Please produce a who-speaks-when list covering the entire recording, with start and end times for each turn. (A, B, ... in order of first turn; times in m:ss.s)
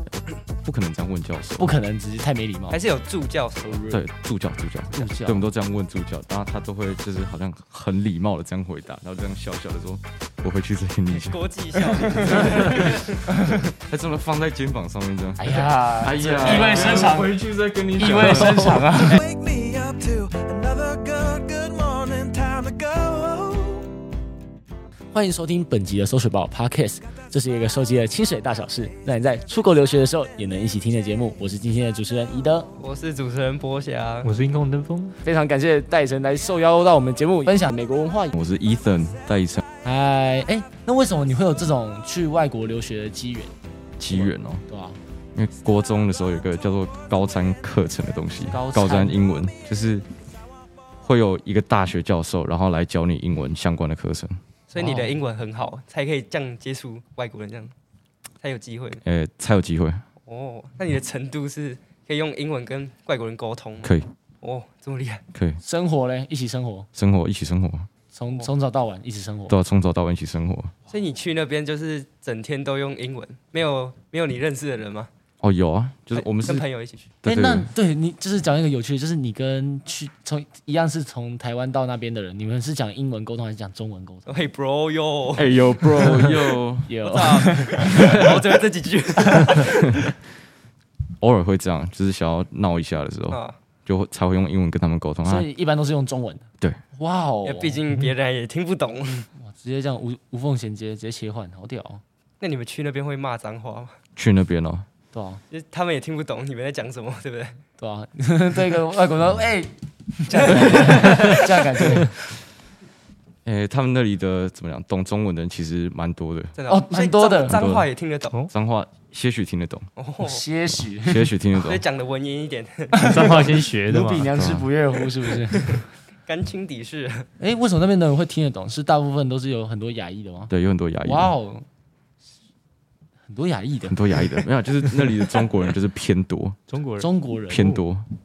0:00.5-0:01.7 A
0:01.6-0:02.8 B
0:02.7-0:03.9 C
0:03.7-0:04.0 B
0:03.9-0:11.4 A
0:04.9-0:05.5 B
0:11.1-0:13.1 C
0:11.9-0:13.0 A
0:12.3-0:12.7 B
0:13.3-0:13.6 B
0:13.6-0:19.0 A
0:15.4-0:17.4 B
0:18.0-0:19.2 B
0:19.7-0:23.2 D
0:25.1-0:32.7 B
0:32.8-0:34.3 C
0:34.2-0:35.2 E
0:35.2-0:38.4 B
0:38.3-0:39.6 A
0:39.8-0:43.5 B
0:44.0-0:44.6 A
0:44.1-0:45.0 B
0:45.3-0:50.1 A
0:48.5-0:49.2 B
0:51.0-0:54.4 A
0:54.7-0:57.7 C
0:54.8-0:55.1 B
0:58.4-0:59.0 C
0:59.0-1:00.0 A
1:00.2-1:05.2 C
1:05.3-1:05.6 A
1:05.6-1:06.9 B
1:06.9-1:07.9 A
1:08.1-1:09.6 B
1:09.5-1:10.7 A
1:10.9-1:15.1 C
1:15.4-1:16.6 A
1:16.1-1:17.1 C
1:17.2-1:17.7 A
1:17.2-1:24.3 B
1:24.2-1:25.5 C
1:25.4-1:26.9 A
1:26.9-1:28.4 B
1:27.0-1:30.1 C
1:31.2-1:35.5 A
1:33.3-1:33.6 C
1:35.2-1:37.8 B
1:37.4-1:39.3 C
1:39.4-1:42.0 B
1:42.4-1:43.9 C
1:44.2-1:44.8 A
1:45.1-1:45.4 B
1:45.5-1:47.6 C
1:47.8-1:52.1 B
1:50.3-1:51.4 C
1:53.4-1:56.5 A
1:56.5-1:58.4 C
1:56.7-1:57.6 B
1:57.5-1:57.9 A
1:58.5-1:59.9 A
2:00.0-2:00.4 C
2:00.2-2:01.3 B
2:01.0-2:01.8 A
2:01.5-2:03.4 C
2:02.9-2:05.8 B
2:03.0-2:04.3 E
2:04.3-2:04.7 A
2:05.5-2:07.3 C
2:07.4-2:10.5 B
2:10.5-2:11.3 A
2:11.0-2:11.6 B
2:13.3-2:15.4 B
2:13.8-2:16.6 A
2:16.7-2:17.8 E
2:17.0-2:17.8 B
2:17.5-2:18.1 A